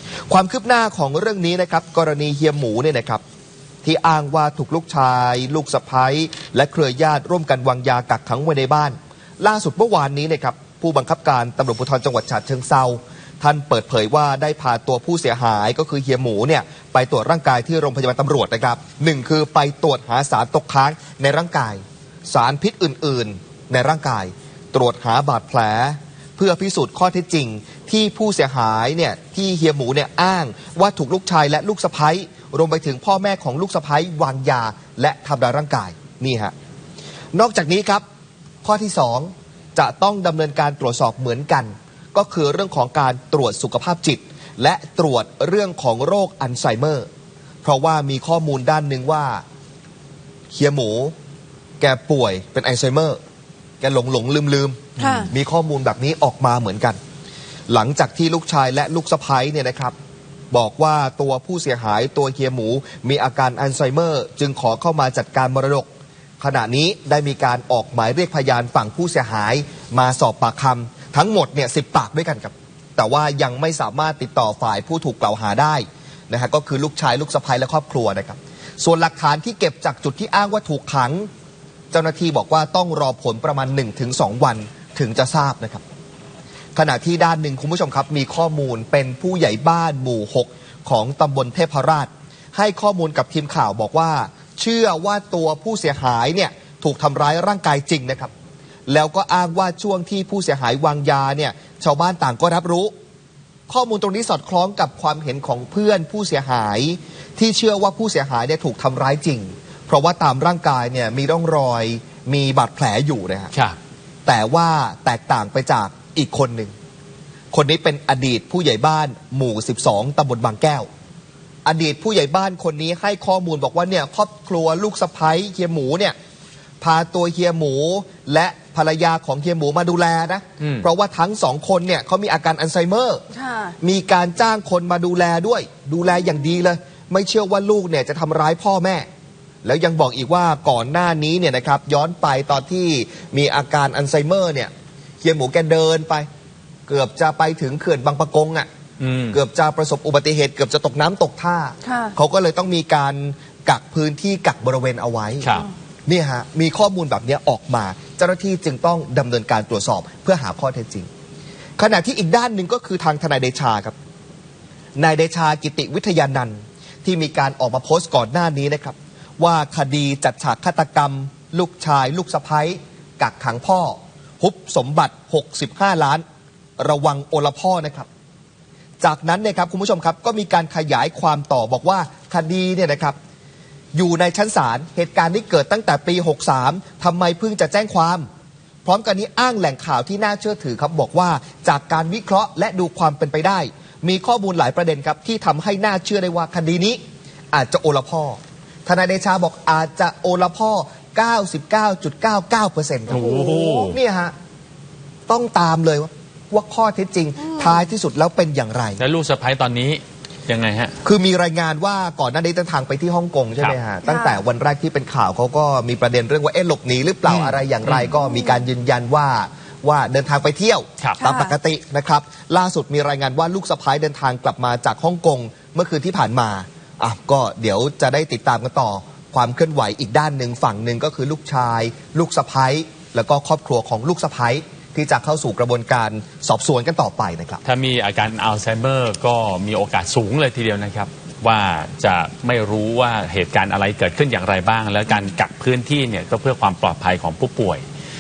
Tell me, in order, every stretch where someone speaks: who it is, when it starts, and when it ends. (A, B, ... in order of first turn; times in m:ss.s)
0:00.3-0:03.2 A
0:03.8-0:36.5 A
0:37.3-0:38.0 A
0:38.6-0:47.1 A
0:47.6-0:49.4 A
0:50.5-0:51.1 A
0:51.8-0:53.2 A
0:53.8-0:57.0 A
0:55.0-0:55.3 B
0:55.0-0:55.3 C
0:57.7-1:00.0 A
1:00.5-1:05.9 A
1:06.4-1:21.3 A
1:21.9-1:25.8 A
1:26.8-1:38.3 A
1:38.9-1:42.9 A
1:43.7-1:53.5 A
1:54.3-1:56.7 A
1:57.5-2:00.9 A
2:01.6-2:06.2 A
2:06.8-2:13.2 A
2:10.6-2:10.9 B
2:13.3-2:13.8 C
2:13.8-2:19.1 A
2:19.6-2:24.7 A
2:25.2-2:26.3 A
2:26.9-2:28.7 A
2:29.0-2:29.4 B
2:29.3-2:35.5 A
2:31.8-2:32.2 C
2:35.4-2:35.7 B
2:36.1-2:41.1 A
2:41.8-2:44.0 A
2:45.0-2:56.2 A
2:56.8-2:58.1 A
2:59.0-3:03.2 A
3:04.0-3:08.3 A
3:08.8-3:17.0 A
3:17.5-3:24.3 A
3:23.1-3:24.0 B
3:23.2-3:23.8 C
3:25.3-3:29.0 A
3:27.5-3:27.8 C
3:29.0-3:31.0 B
3:31.0-3:57.6 A
3:34.0-3:34.4 C
3:37.3-3:38.2 B
3:38.2-3:38.6 C
3:41.2-3:41.6 C
3:57.6-4:07.8 B